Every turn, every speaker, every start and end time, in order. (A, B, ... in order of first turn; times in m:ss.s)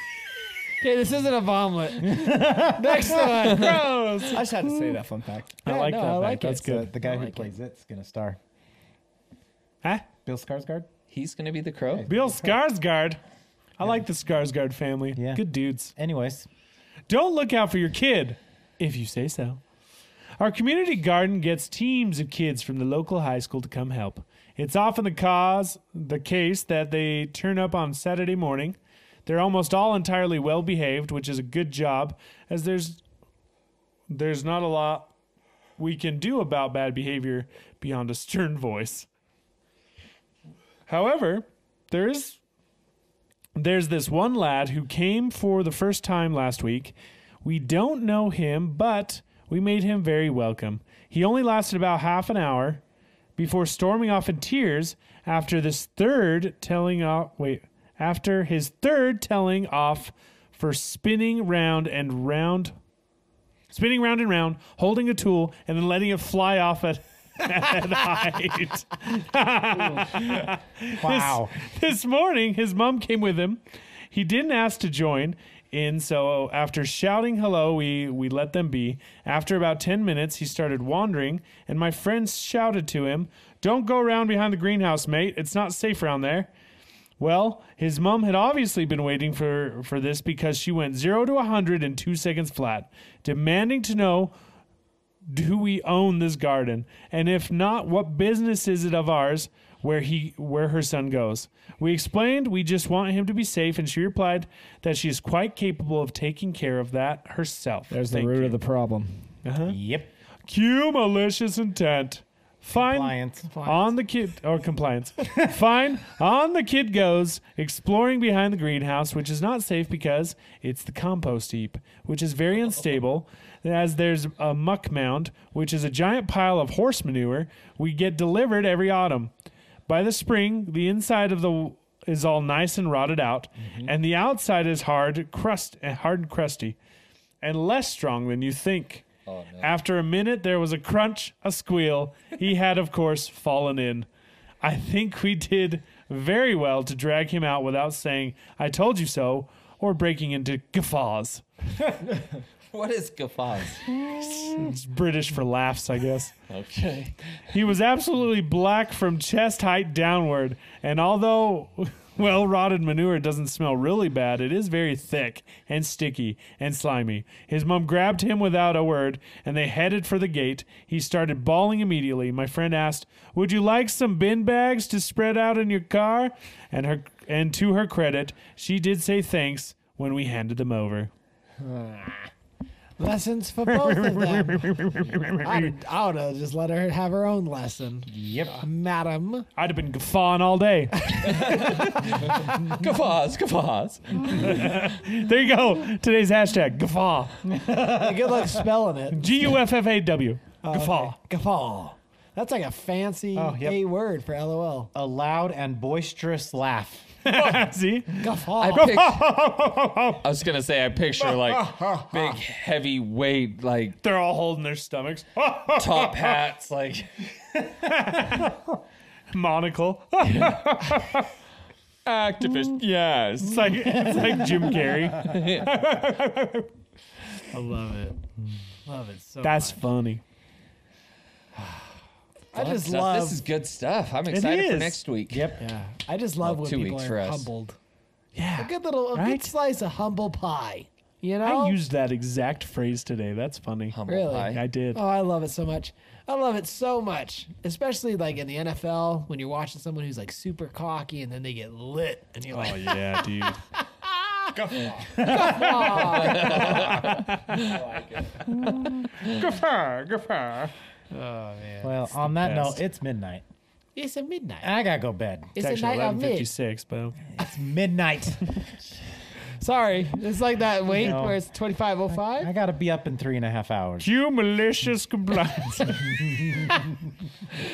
0:00.8-0:04.0 A
0:02.0-0:03.3 B
0:03.5-0:04.4 C
0:04.3-0:05.6 D
0:05.6-0:06.9 C
0:05.6-0:07.5 A
0:06.4-0:08.4 B
0:10.3-0:10.9 B
0:11.1-0:12.1 E
0:11.9-0:12.5 B
0:12.1-0:13.2 C
0:13.8-0:15.9 C
0:15.2-0:16.5 B
0:17.1-0:19.6 C
0:20.4-0:33.0 C
0:34.1-0:35.1 C
0:35.8-0:39.1 C
0:40.9-0:42.4 C
0:43.6-0:52.8 C
0:53.4-1:02.7 C
1:03.7-1:13.6 C
1:11.0-1:11.6 B
1:14.1-1:26.5 C
1:27.2-1:34.3 C
1:35.3-1:48.6 C
1:47.9-1:49.3 D
1:49.4-1:49.8 C
1:49.7-1:50.1 B
1:50.5-2:09.3 C
1:52.8-1:53.5 B
1:53.5-1:54.0 A
2:09.9-2:16.8 C
2:13.7-2:13.9 D
2:17.4-2:19.0 C
2:19.3-2:19.7 E
2:19.6-2:24.1 C
2:24.6-2:31.4 C
2:32.7-2:33.9 E
2:33.9-2:34.7 B
2:34.1-2:36.3 C
2:36.5-2:37.2 E
2:37.5-3:01.1 C
3:01.6-3:02.3 D
3:03.0-3:04.8 A
3:03.6-3:05.8 C
3:05.4-3:08.1 A
3:08.1-3:08.6 B
3:08.6-3:09.5 A
3:09.6-3:11.5 C
3:11.1-3:11.7 A
3:11.3-3:14.6 E
3:14.4-3:17.4 C
3:17.4-3:18.7 B
3:17.8-3:19.3 A
3:19.1-3:21.2 C
3:20.6-3:24.9 A
3:23.4-3:23.8 B
3:24.9-3:27.5 B
3:27.2-3:30.3 C
3:28.2-3:29.0 A
3:28.6-3:29.3 E
3:30.2-3:34.0 E
3:31.2-3:32.4 A
3:34.0-3:36.4 C
3:35.8-3:37.1 E
3:37.8-3:38.5 C
3:39.3-3:41.3 C
3:42.0-3:43.6 E
3:43.4-3:46.7 C
3:43.8-3:45.1 B
3:45.2-3:45.7 E
3:47.5-3:48.2 A
3:48.8-3:49.8 A
3:49.4-3:50.2 C
3:52.5-3:53.4 A
3:52.5-3:55.6 E
3:54.3-3:55.0 C
3:55.3-3:55.6 B
3:55.6-3:57.8 A
3:56.4-3:57.5 E
3:58.4-3:59.5 C
3:58.6-4:01.8 A
4:01.4-4:04.0 C
4:03.9-4:04.6 E
4:04.1-4:16.9 A
4:04.5-4:05.0 C
4:12.5-4:13.6 C
4:15.0-4:16.8 B
4:15.3-4:17.6 C
4:16.0-4:17.6 E
4:18.5-4:20.7 B
4:21.1-4:22.0 A
4:21.8-4:23.4 B
4:22.2-4:22.8 C
4:24.0-4:24.7 A
4:24.6-4:25.6 B
4:25.6-4:26.5 A
4:25.6-4:27.2 C
4:27.4-4:28.6 B
4:29.6-4:32.5 A
4:31.0-4:31.4 B
4:32.1-4:34.1 B
4:34.0-4:36.2 C
4:35.9-4:36.9 B